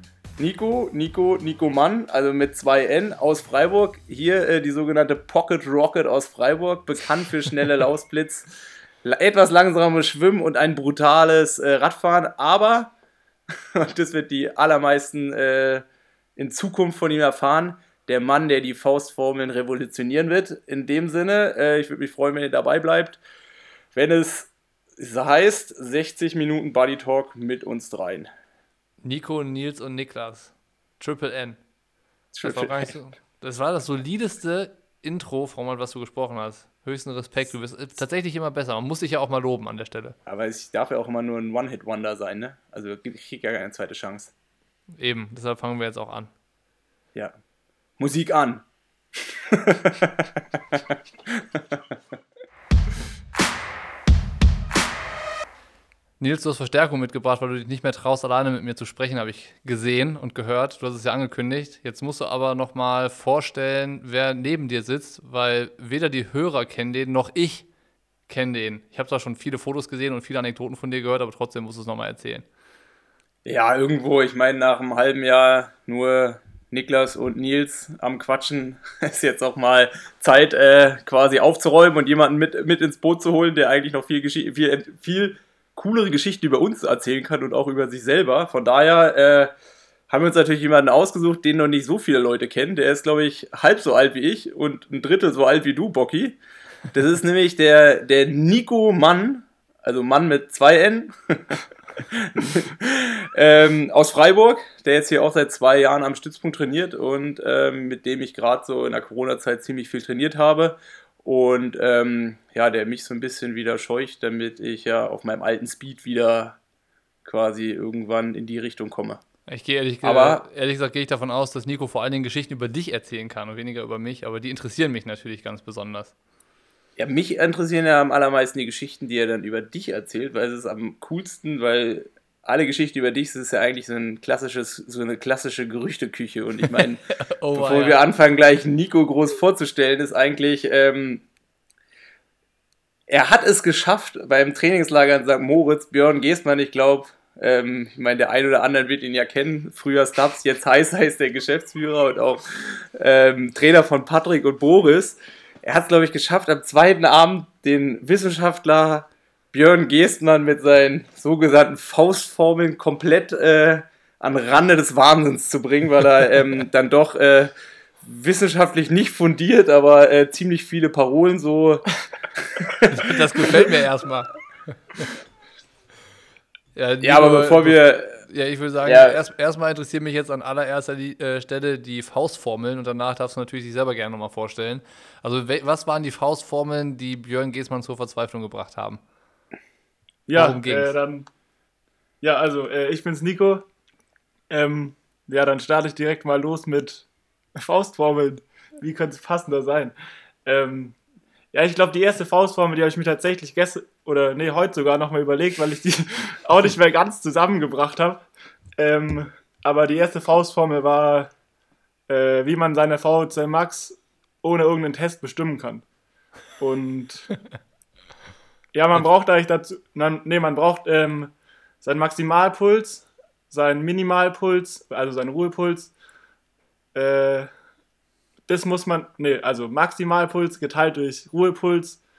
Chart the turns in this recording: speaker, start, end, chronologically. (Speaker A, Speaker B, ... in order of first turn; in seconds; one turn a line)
Speaker A: 0.4-8.5
Speaker A: 9.0-12.9
Speaker A: 13.8-15.8
Speaker A: 16.4-23.2
Speaker A: 23.9-28.3
Speaker B: 29.0-31.6
Speaker A: 32.3-32.9
Speaker B: 32.4-40.2
Speaker A: 40.3-44.3
Speaker B: 45.0-46.3
Speaker A: 48.0-48.6
Speaker A: 49.2-51.8
Speaker B: 56.2-67.7
Speaker B: 68.3-72.5
Speaker A: 73.5-89.5
Speaker A: 90.1-96.4
Speaker A: 96.9-116.6
Speaker A: 117.2-119.2
Speaker B: 119.5-126.1
Speaker A: 120.0-120.4
Speaker A: 127.0-137.0
Speaker B: 137.2-138.0
Speaker A: 137.5-141.2
Speaker A: 143.1-171.9
Speaker A: 172.4-173.7
Speaker B: 172.9-174.3
Speaker B: 176.8-189.0
Speaker A: 177.0-178.2
Speaker A: 178.8-179.2
Speaker C: 190.3-191.3
Speaker B: 190.3-190.9
Speaker C: 192.2-193.7
Speaker C: 194.5-199.9
Speaker C: 200.5-201.0
Speaker C: 201.5-208.2
Speaker C: 208.8-211.3
Speaker C: 212.1-215.8
Speaker C: 216.6-217.3
Speaker C: 218.7-225.9
Speaker C: 226.9-227.5
Speaker C: 228.5-232.0